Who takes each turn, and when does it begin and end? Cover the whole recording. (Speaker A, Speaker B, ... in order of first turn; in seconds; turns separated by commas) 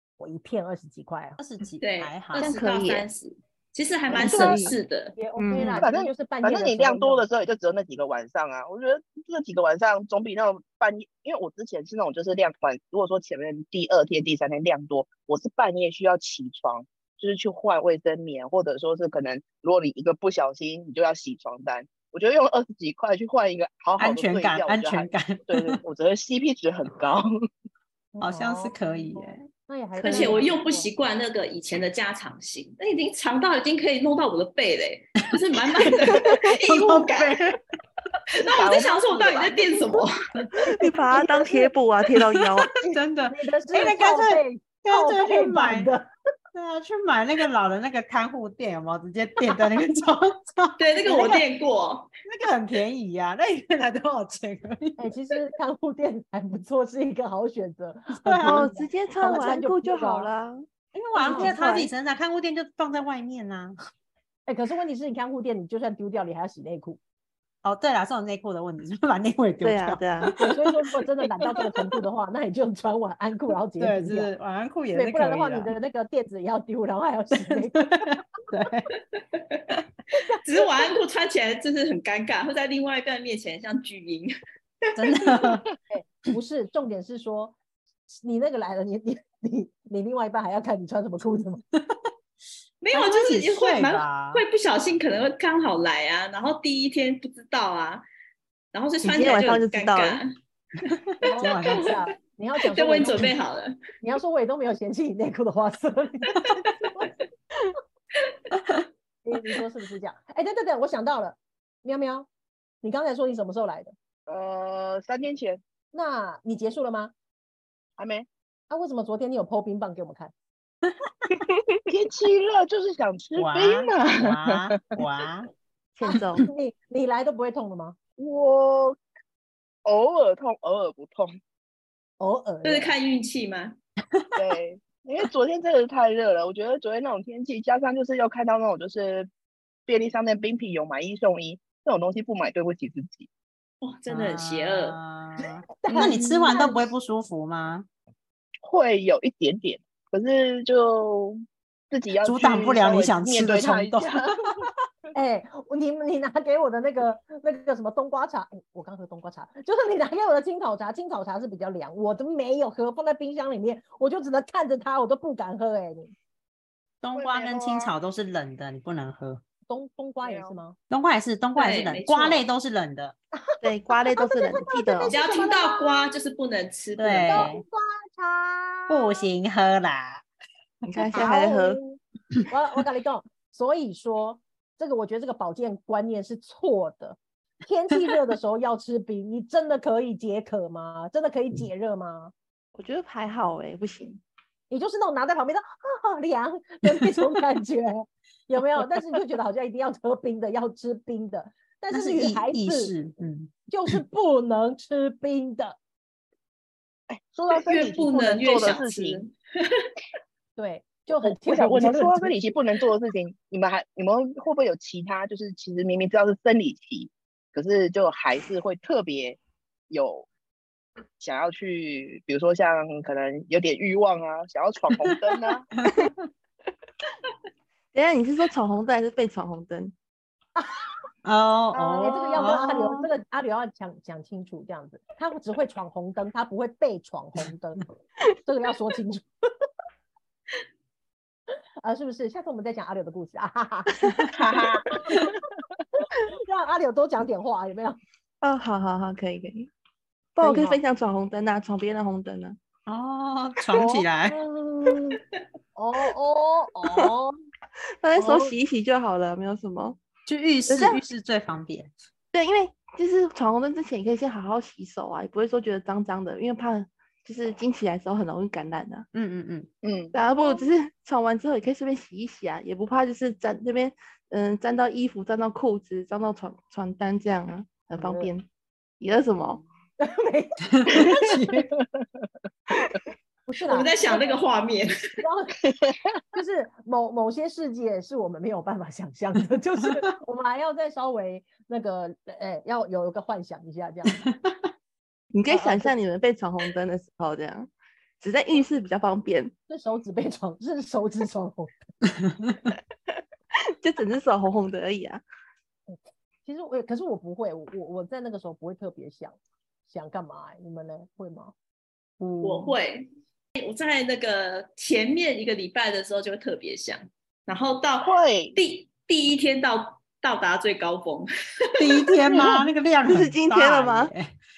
Speaker A: 0.2-1.4, Speaker B: 1.4-2.5, Speaker C: 1.8-5.2, Speaker D: 2.3-3.0, Speaker A: 4.1-4.6, Speaker D: 4.1-4.8, Speaker A: 5.2-7.2, Speaker D: 5.4-5.8, Speaker E: 5.8-27.3, Speaker B: 24.0-25.8, Speaker A: 28.1-30.9, Speaker B: 28.2-29.5, Speaker C: 30.0-37.4, Speaker B: 30.1-30.4, Speaker B: 36.1-37.6, Speaker C: 38.4-40.1, Speaker E: 38.5-40.0, Speaker A: 39.9-41.7, Speaker D: 40.6-42.7, Speaker B: 42.1-45.9, Speaker A: 42.8-46.1, Speaker B: 46.5-51.4, Speaker C: 50.8-52.1, Speaker B: 52.3-55.1, Speaker A: 55.0-60.3, Speaker B: 58.1-58.7, Speaker D: 58.4-60.6, Speaker B: 61.0-63.8, Speaker A: 61.2-61.6, Speaker D: 61.2-61.9, Speaker A: 64.5-67.0, Speaker B: 67.6-70.4, Speaker D: 69.6-70.4, Speaker A: 70.4-74.3, Speaker B: 73.8-75.7, Speaker A: 74.9-78.2, Speaker B: 77.4-78.9, Speaker C: 79.2-79.8, Speaker C: 80.4-84.3, Speaker C: 84.8-85.6, Speaker B: 85.0-85.7, Speaker A: 85.9-87.6, Speaker A: 88.1-91.6, Speaker C: 92.8-98.0, Speaker B: 92.9-94.4, Speaker C: 98.7-100.3, Speaker D: 99.0-100.2, Speaker B: 100.9-102.0, Speaker A: 101.2-103.3, Speaker C: 101.7-102.0, Speaker C: 102.7-103.8, Speaker A: 104.0-107.1, Speaker A: 109.2-112.3, Speaker A: 112.8-113.9, Speaker E: 114.3-115.6, Speaker A: 115.9-117.1, Speaker E: 118.0-118.3, Speaker A: 118.7-120.3, Speaker D: 121.5-121.8, Speaker E: 121.9-124.8, Speaker B: 123.4-125.5, Speaker D: 126.0-126.5, Speaker A: 126.0-128.0, Speaker E: 128.2-129.0, Speaker E: 129.8-131.4, Speaker A: 132.2-132.9, Speaker C: 132.6-133.8, Speaker E: 134.4-139.3, Speaker E: 139.9-143.3, Speaker C: 143.8-145.0, Speaker B: 144.1-147.9, Speaker A: 145.8-146.9, Speaker E: 148.6-151.4, Speaker E: 151.9-154.5, Speaker B: 152.2-154.2, Speaker A: 155.1-166.1, Speaker B: 167.0-169.4, Speaker E: 167.2-167.9, Speaker A: 169.7-170.8, Speaker E: 170.2-170.6, Speaker B: 170.9-173.2, Speaker C: 171.6-172.4, Speaker A: 173.3-176.3, Speaker D: 173.6-175.2, Speaker C: 175.1-177.5, Speaker B: 177.0-177.6, Speaker A: 177.3-179.2, Speaker B: 178.9-180.2, Speaker D: 180.8-181.8, Speaker A: 181.1-192.3, Speaker D: 192.8-194.2, Speaker A: 194.7-202.9, Speaker B: 201.9-204.0, Speaker A: 203.7-205.8, Speaker E: 207.1-209.2, Speaker C: 207.5-209.9, Speaker A: 210.6-212.5, Speaker E: 211.2-219.4, Speaker E: 219.9-220.3, Speaker E: 221.2-225.7, Speaker B: 225.8-226.1, Speaker D: 227.9-229.9, Speaker B: 231.2-233.1, Speaker A: 231.7-237.9, Speaker A: 238.4-239.3, Speaker A: 241.8-244.2, Speaker E: 244.3-245.3, Speaker A: 244.9-245.4, Speaker A: 246.0-248.0, Speaker D: 248.4-249.7, Speaker D: 250.4-252.6, Speaker A: 250.4-250.8, Speaker B: 252.9-254.4, Speaker A: 253.7-255.2, Speaker A: 255.8-257.3, Speaker D: 258.0-260.0, Speaker A: 258.1-258.6, Speaker B: 260.3-261.9, Speaker D: 260.7-261.0, Speaker D: 262.3-269.1, Speaker B: 269.1-269.7, Speaker E: 269.8-270.1, Speaker D: 270.1-278.5, Speaker A: 270.3-270.7, Speaker A: 277.9-278.3, Speaker D: 279.0-279.6, Speaker A: 280.0-281.2, Speaker B: 280.7-281.7, Speaker A: 283.5-284.4, Speaker C: 283.7-284.9, Speaker A: 285.2-285.6, Speaker A: 286.3-294.2, Speaker D: 295.3-297.7, Speaker A: 295.5-296.0, Speaker D: 298.2-299.5, Speaker A: 299.7-301.7, Speaker D: 303.8-305.2, Speaker A: 305.9-311.5, Speaker C: 312.4-322.1, Speaker E: 318.0-318.6, Speaker B: 321.8-324.4, Speaker D: 323.1-324.1